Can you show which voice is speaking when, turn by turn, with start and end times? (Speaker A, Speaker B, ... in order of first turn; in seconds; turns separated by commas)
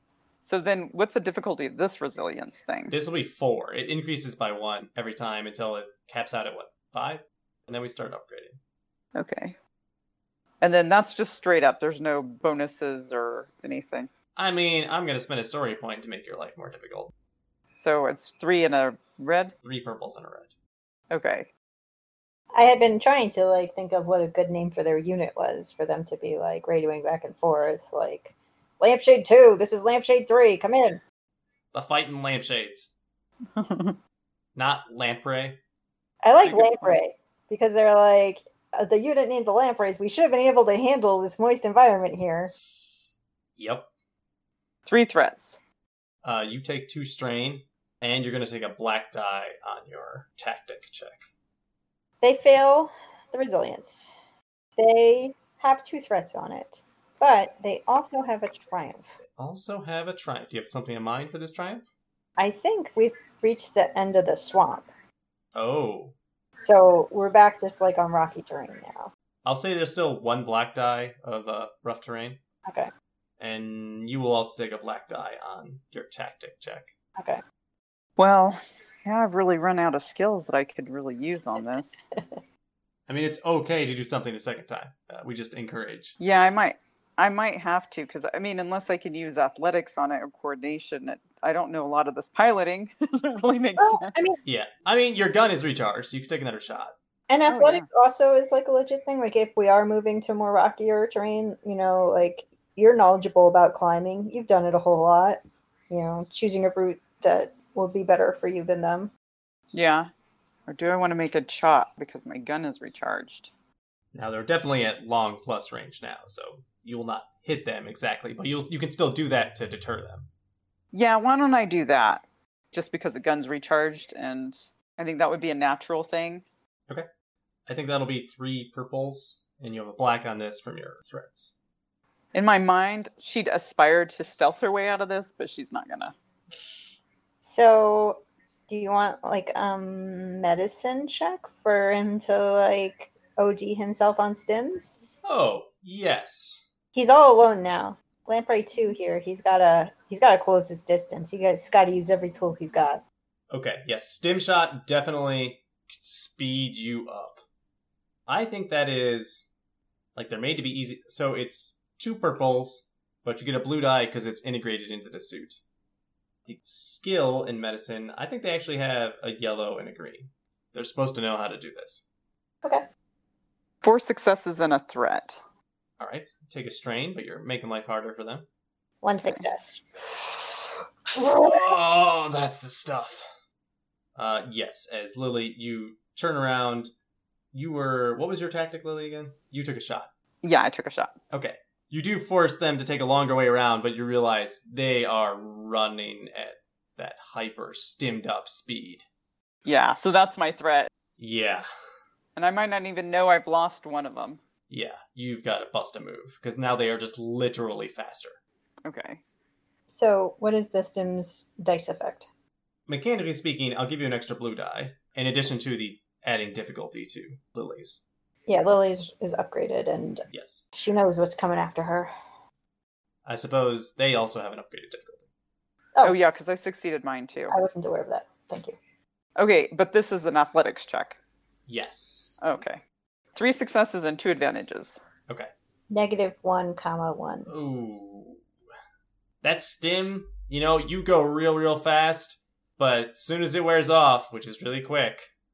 Speaker A: 0.4-2.9, Speaker B: 2.9-8.6, Speaker A: 9.2-9.6, Speaker A: 10.6-14.1, Speaker B: 14.4-17.1, Speaker A: 17.8-19.5, Speaker B: 19.6-20.5, Speaker A: 21.1-21.5, Speaker C: 22.5-31.0, Speaker B: 31.7-33.0, Speaker A: 33.5-34.0, Speaker B: 34.5-35.6, Speaker C: 36.2-42.5, Speaker A: 36.4-37.0, Speaker B: 43.6-43.9, Speaker A: 44.9-45.6, Speaker B: 46.2-51.3, Speaker C: 52.2-54.1, Speaker C: 54.8-59.1, Speaker B: 59.4-61.9, Speaker C: 62.4-64.9, Speaker B: 65.5-66.2, Speaker C: 66.6-69.1, Speaker B: 69.5-72.4, Speaker B: 73.4-76.9, Speaker A: 78.2-82.0, Speaker B: 83.1-86.2, Speaker A: 86.2-94.2, Speaker C: 93.8-94.4, Speaker B: 94.5-96.9, Speaker C: 97.3-105.4, Speaker A: 97.5-97.9, Speaker C: 105.9-109.1, Speaker A: 109.7-110.1, Speaker A: 110.7-113.5, Speaker B: 114.1-120.3, Speaker A: 120.9-126.5, Speaker B: 127.7-131.5, Speaker A: 132.3-136.2, Speaker C: 137.4-145.2, Speaker B: 145.2-146.7, Speaker C: 146.9-153.0, Speaker B: 153.5-157.4, Speaker B: 158.3-159.5, Speaker B: 160.2-165.6, Speaker B: 166.5-172.0, Speaker A: 173.8-175.4, Speaker B: 176.0-178.5, Speaker C: 179.0-180.0, Speaker C: 181.2-181.7, Speaker B: 181.4-183.3, Speaker B: 184.2-186.9, Speaker B: 187.5-190.1, Speaker A: 190.4-191.2, Speaker B: 191.3-199.0, Speaker A: 199.7-200.9, Speaker B: 201.2-201.6, Speaker A: 202.4-204.4, Speaker B: 204.7-208.4, Speaker A: 208.8-209.2, Speaker C: 209.9-212.3, Speaker B: 212.9-218.0, Speaker C: 218.5-222.1, Speaker B: 220.3-220.7, Speaker B: 223.2-225.3, Speaker A: 226.0-227.6, Speaker C: 227.5-228.8, Speaker A: 229.4-231.2, Speaker B: 231.7-232.3, Speaker A: 232.4-232.8, Speaker A: 233.3-235.0, Speaker C: 235.9-237.5, Speaker B: 237.5-238.4, Speaker B: 239.4-245.3